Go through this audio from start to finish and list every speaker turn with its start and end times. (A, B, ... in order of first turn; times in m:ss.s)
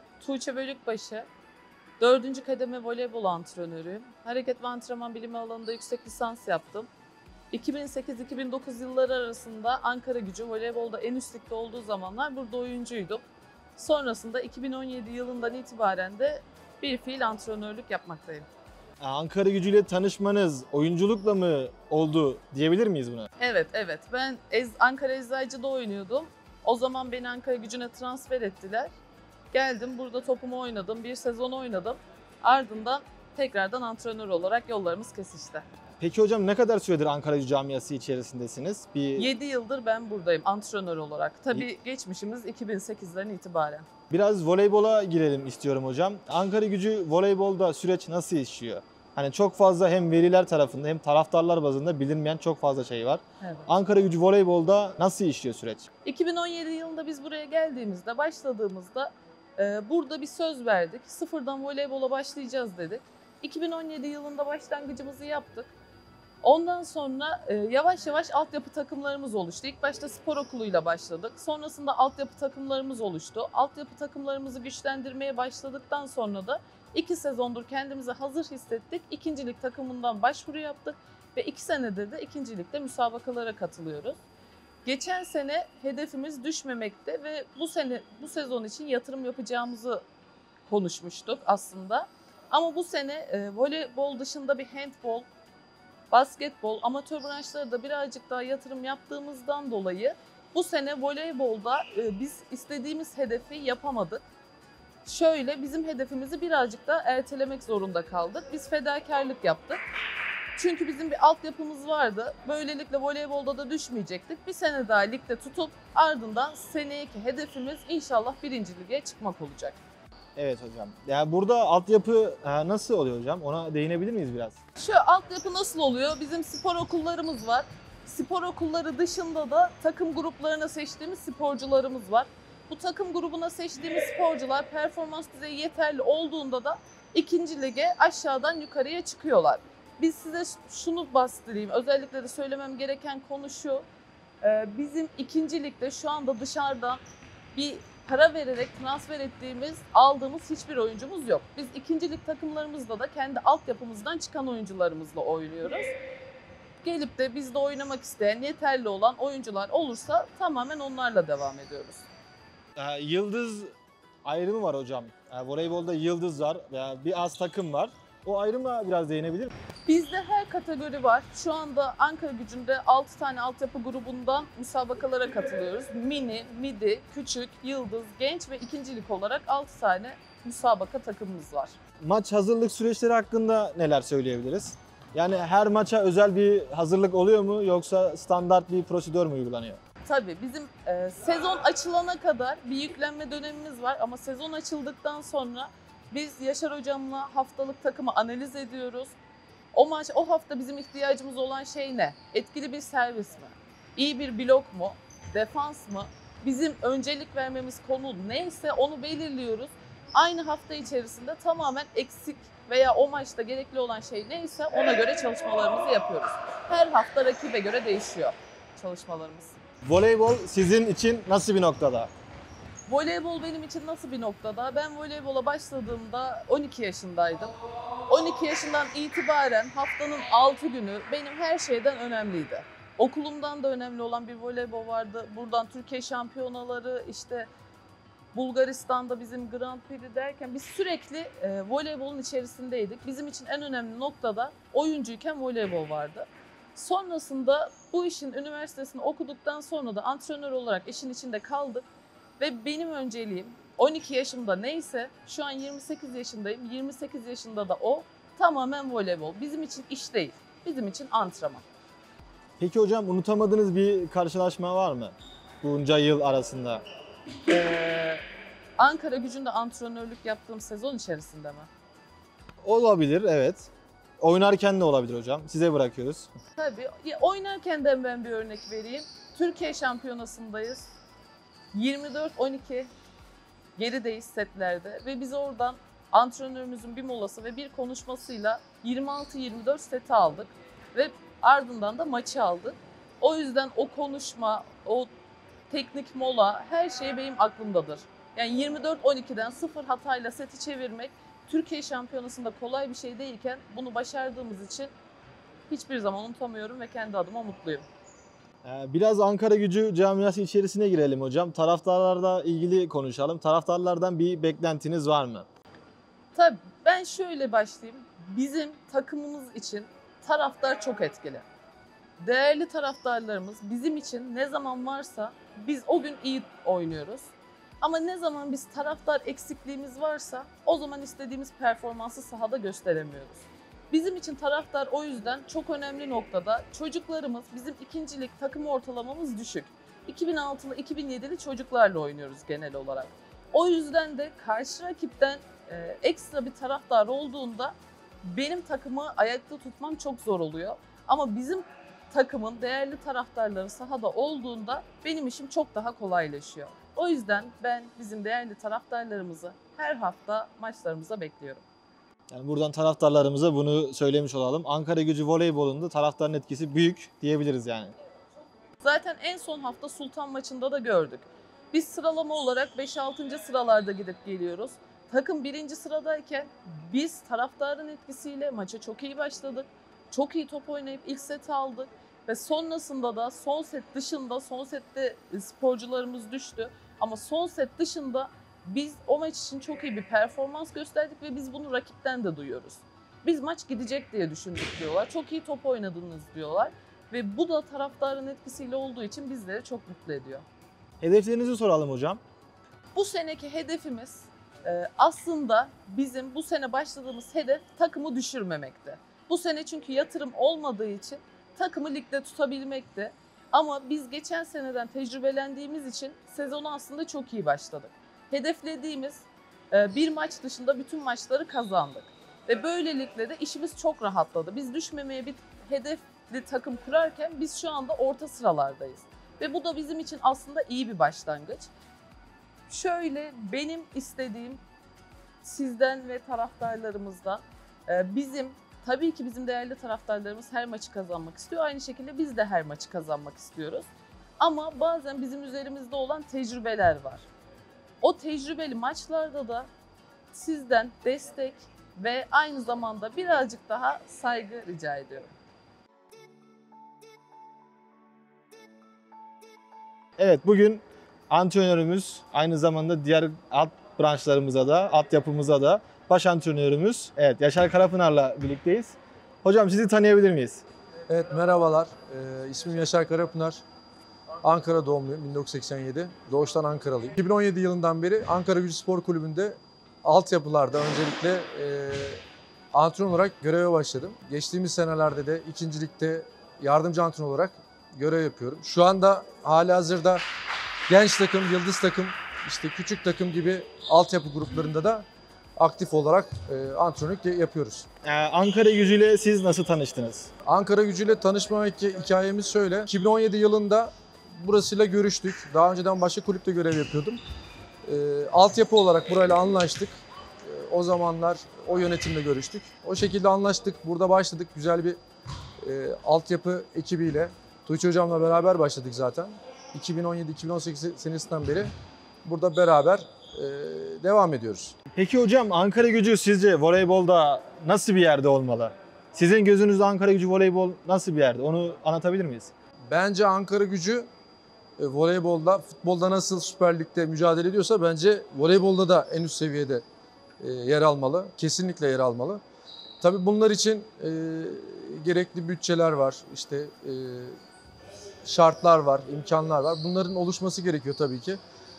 0:00.2-0:01.3 A
0:02.0-0:06.9 A
0:07.5-0:13.2 A
0:13.8-0:18.5 A
0:19.0-0:23.3 B
0:23.4-0:28.9 A
0:29.5-0:35.6 A
0:36.0-0:39.3 B
0:39.2-0:43.8 A
0:44.1-0:55.9 B
0:53.4-0:53.7 A
0:56.0-1:05.7 A
1:06.4-1:24.2 A
1:24.8-1:30.0 A
1:30.7-1:35.3 A
1:36.1-1:44.2 A
1:45.0-1:49.8 A
1:50.6-1:59.8 A
2:00.4-2:04.6 B
2:04.8-2:23.8 A
2:24.4-2:27.0 A
2:27.5-2:35.9 A
2:36.8-2:42.1 A
2:42.8-2:49.5 B
2:49.8-3:01.8 A
3:02.0-3:09.8 B
3:10.0-3:19.1 A
3:19.7-3:39.6 A
3:39.8-3:42.1 B
3:42.9-3:47.5 A
3:48.1-3:57.5 A
3:58.3-4:11.8 A
4:12.4-4:21.6 A
4:22.6-4:26.8 B
4:27.5-4:28.2 A
4:28.8-4:31.7 A
4:32.6-4:36.3 B
4:36.6-4:40.8 A
4:41.7-4:42.9 A
4:43.8-4:55.1 A
4:55.7-5:04.9 A
5:05.7-5:07.8 A
5:08.6-5:15.5 B
5:16.3-5:21.4 A
5:22.2-6:01.6 A
6:02.3-6:07.9 B
6:08.8-6:40.4 A
6:41.0-6:42.2 B
6:42.9-7:11.7 A
7:12.7-7:14.6 A
7:15.4-7:23.9 A
7:24.4-7:27.3 A
7:28.0-7:29.7 A
7:30.3-7:35.3 A
7:40.2-7:50.6 B
7:51.1-7:53.6 C
7:54.4-8:02.2 C
8:02.7-8:10.2 C
8:10.9-8:15.0 C
8:15.6-8:17.8 C
8:18.0-8:20.3 B
8:20.4-8:27.2 C
8:27.8-8:35.0 C
8:35.6-8:41.7 C
8:42.2-8:44.8 C
8:44.9-8:52.5 B
8:52.9-8:54.1 C
8:54.8-8:59.8 C
9:00.4-9:02.4 C
9:03.0-9:07.4 C
9:08.2-9:11.4 C